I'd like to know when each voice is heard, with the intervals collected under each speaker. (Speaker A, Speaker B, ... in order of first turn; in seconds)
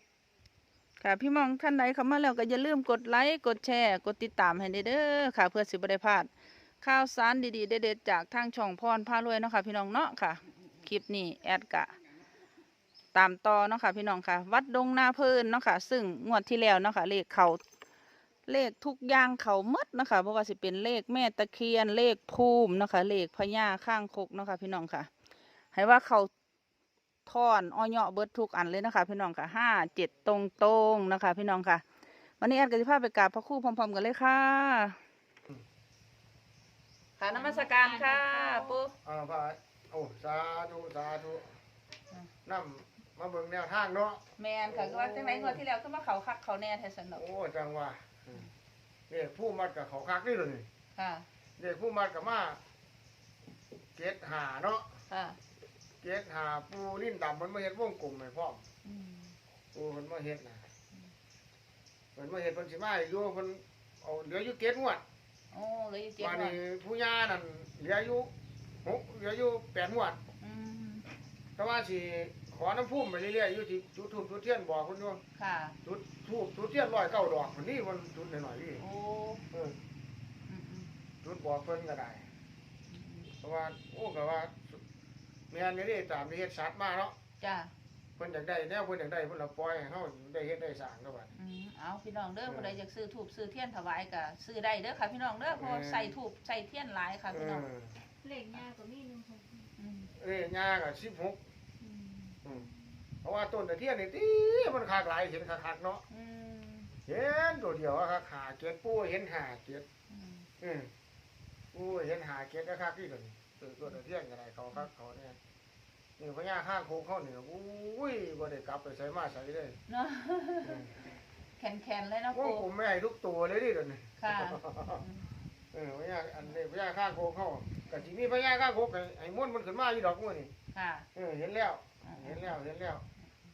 Speaker A: 1.0-6.3, 6.8-11.9, 13.1-17.6, 18.5-25.1, 25.7-26.3, 27.3-31.8, 32.4-35.0, 37.2-38.9, 44.4-47.2, 50.9-51.3, 55.1-55.4, 58.8-59.4, 65.5-66.6, 70.4-71.1, 75.3-75.8, 78.8-79.5, 80.5-80.9, 82.9-83.3, 87.4-87.7, 91.3-97.7, 99.8-100.1, 101.8-102.4, 106.1-107.0, 110.1-110.5, 119.9-120.8, 121.5-122.6, 124.2-125.3, 130.7-131.1, 132.0-132.5
Speaker B: 37.3-38.8, 98.2-99.7
Speaker C: 39.0-41.6, 42.5-45.6, 47.1-48.5, 49.1-50.7, 51.6-52.6, 54.0-54.9, 56.0-58.6, 59.7-60.6, 62.1-65.0, 66.2-68.3, 68.8-70.2, 71.6-75.2, 75.8-78.8, 79.5-79.8, 81.2-82.3, 83.4-84.8, 85.5-87.2, 88.2-91.3, 92.5-92.8, 95.5-96.2, 97.3-98.0, 100.1-101.4, 102.4-102.7, 103.2-106.0, 107.1-109.9, 110.6-110.9, 111.7-115.4, 116.2-119.8, 120.6-120.9, 122.3-125.1, 125.7-130.5, 131.2-133.0